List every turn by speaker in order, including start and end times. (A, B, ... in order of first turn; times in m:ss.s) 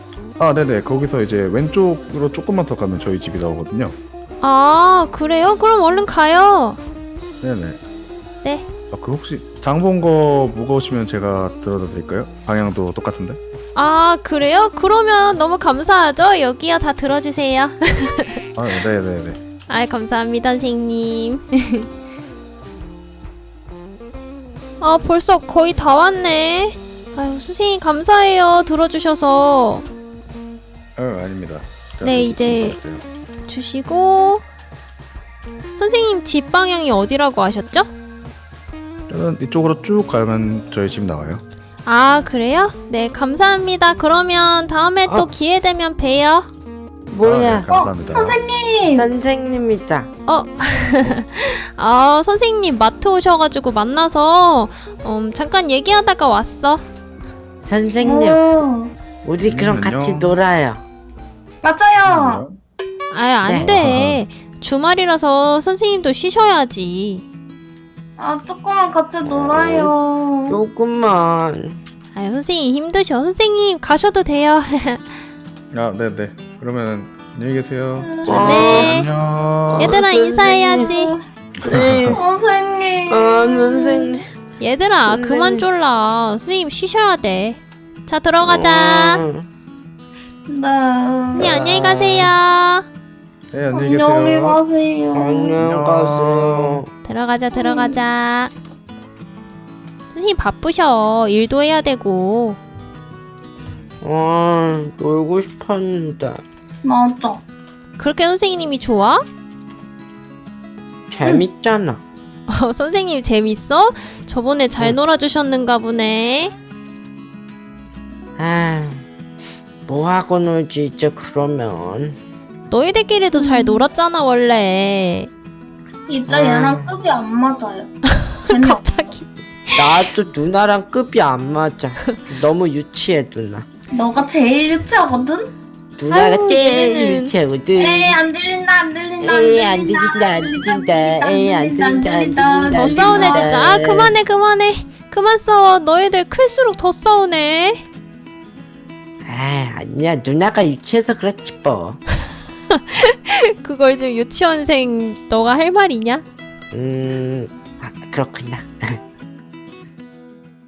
0:00.4-0:04.0 A
0:04.4-0:06.8 B
0:07.4-0:07.8 A
0:08.4-0:08.7 B
0:08.9-0:13.4 A
0:13.8-0:18.4 B
0:18.6-0:19.4 A
0:19.7-0:21.9 B
0:24.8-0:29.9 B
0:31.0-0:33.0 A
0:32.0-0:32.8 B
0:33.5-0:34.4 B
0:35.8-0:37.9 B
0:39.1-0:41.4 A
0:41.8-0:46.5 B
0:47.1-0:47.7 C
0:47.2-0:48.4 A
0:47.7-0:49.1 D
0:48.9-0:50.1 C
0:50.3-0:56.8 B
0:57.7-0:58.4 C
0:58.0-0:58.9 D
0:59.2-1:00.8 C
0:59.4-1:00.4 A
1:01.6-1:02.4 D
1:02.0-1:02.6 A
1:03.1-1:07.2 B
1:03.4-1:03.8 C
1:03.6-1:04.2 A
1:08.2-1:10.6 D
1:09.2-1:09.9 C
1:10.5-1:11.8 C
1:12.1-1:15.2 B
1:15.7-1:19.9 A
1:18.0-1:18.8 D
1:18.3-1:19.0 C
1:18.4-1:19.1 B
1:19.7-1:20.8 C
1:19.8-1:21.1 B
1:20.8-1:21.2 D
1:21.6-1:22.2 C
1:21.7-1:22.2 A
1:22.1-1:24.2 D
1:23.1-1:24.2 C
1:24.6-1:29.2 B
1:25.1-1:25.7 C
1:28.4-1:29.5 C
1:30.5-1:31.5 D
1:31.3-1:32.3 C
1:31.3-1:32.9 B
1:33.5-1:34.6 A
1:33.7-1:35.6 D
1:35.2-1:36.9 C
1:35.6-1:36.8 A
1:37.0-1:38.5 B
1:37.5-1:38.0 D
1:40.1-1:42.6 B
1:44.0-1:46.4 C
1:46.8-1:47.4 D
1:48.0-1:49.2 B
1:51.1-1:52.0 C
1:52.5-1:56.6 B
1:58.4-1:59.1 C
1:59.9-2:02.2 C
2:02.7-2:05.3 B
2:03.4-2:03.8 D
2:06.1-2:07.9 D
2:06.3-2:07.0 C
2:08.1-2:10.1 B
2:08.4-2:09.1 D
2:09.8-2:13.7 C
2:13.9-2:15.5 D
2:16.0-2:18.2 C
2:16.1-2:17.4 B
2:17.8-2:23.6 D
2:19.2-2:24.2 C
2:22.7-2:27.8 B
2:29.3-2:32.0 C
2:32.7-2:36.2 B
2:36.7-2:39.0 C